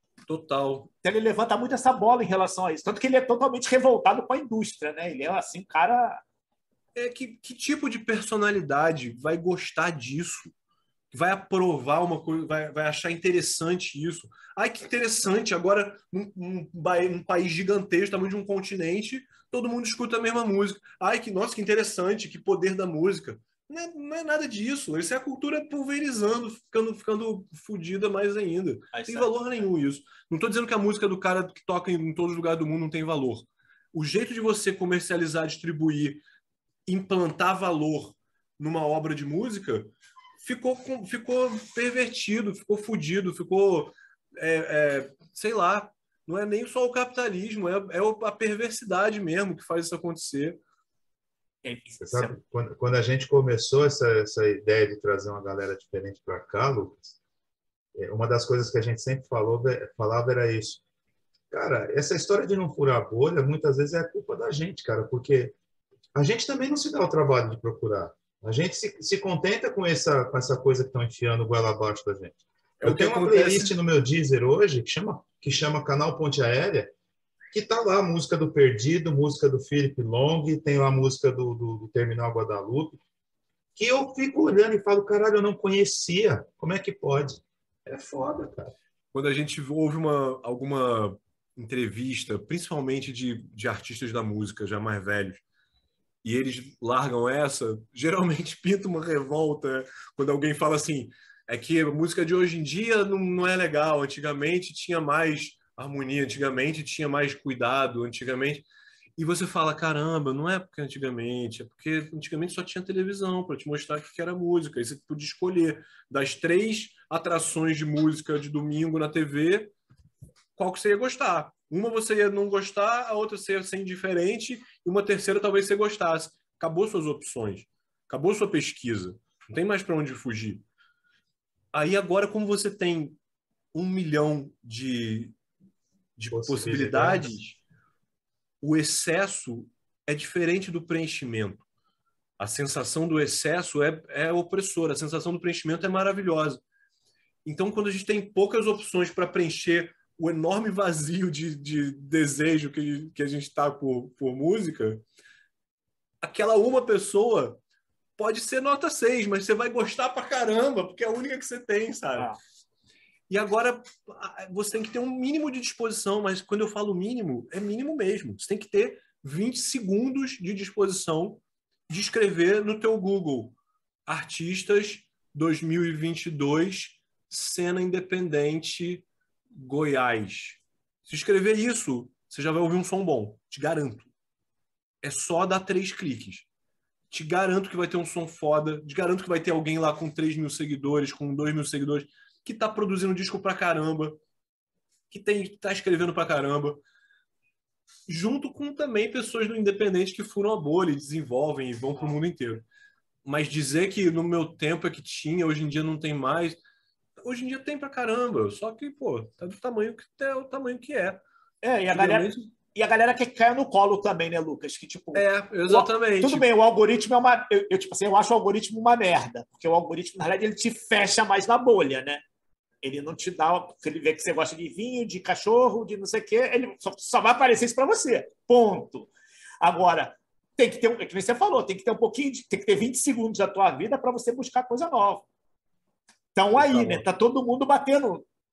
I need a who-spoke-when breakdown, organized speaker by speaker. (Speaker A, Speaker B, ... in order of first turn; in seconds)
Speaker A: 0.3-0.9, 7.0-10.5, 11.1-36.2, 36.9-50.6, 72.8-73.7, 89.1-95.4, 96.2-108.6, 109.2-119.7, 120.5-130.6, 131.7-133.2, 133.7-135.3, 136.2-137.6, 138.6-141.7, 142.4-146.6, 147.4-155.0, 156.2-157.6, 158.2-162.3, 163.3-173.6, 174.1-184.1, 185.0-186.5, 187.1-194.2, 195.1-196.8, 198.1-202.6, 203.2-206.6, 207.2-211.2, 211.9-212.5, 215.1-216.4, 236.5-237.0
Speaker B: 1.0-6.2, 28.9-29.4, 51.6-52.3, 211.6-222.2, 222.8-235.2, 236.3-238.2
Speaker C: 52.0-57.2, 57.9-60.8, 61.5-65.5, 66.1-76.9, 77.5-83.0, 83.8-88.7, 136.3-137.4